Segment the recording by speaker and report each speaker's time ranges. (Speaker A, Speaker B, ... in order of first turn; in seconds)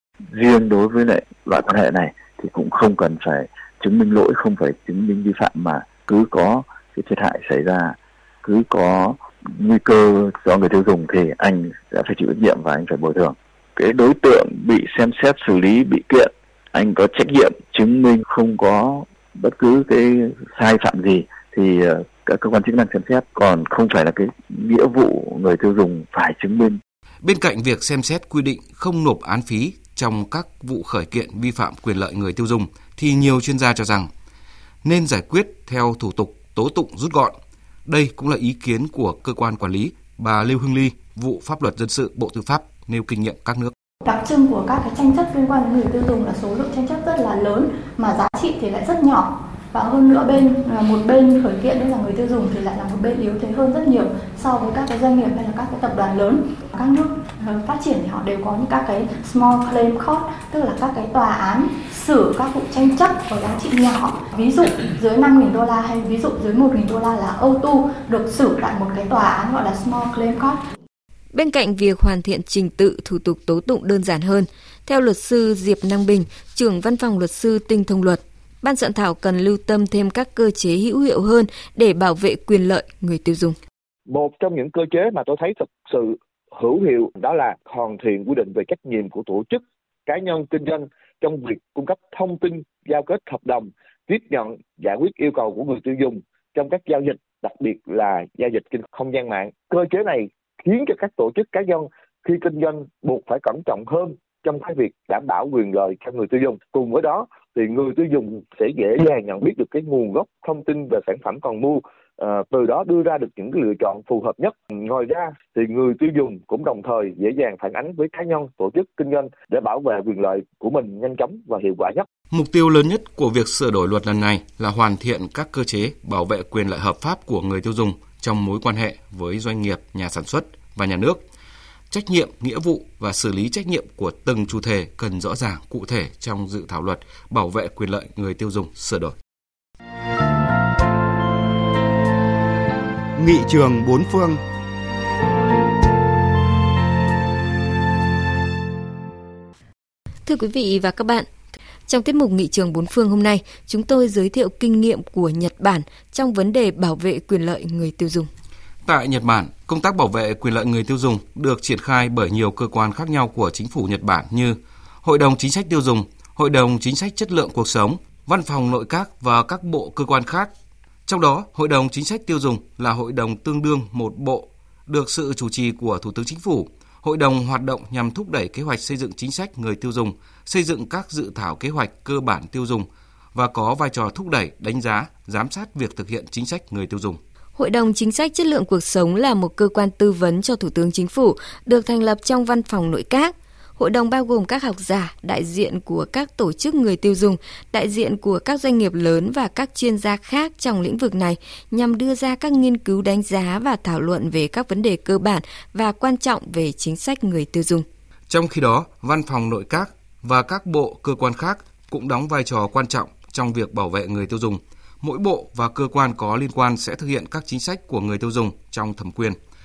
Speaker A: 0.3-26.8
Speaker B: 27.2-34.1, 34.8-43.7, 122.3-131.2, 131.9-139.2, 143.2-144.4, 158.8-170.5, 171.1-187.2, 208.3-219.4
Speaker C: 44.0-70.6
Speaker D: 71.3-83.6, 150.2-151.3, 151.9-158.3, 187.6-207.8
Speaker E: 84.1-122.0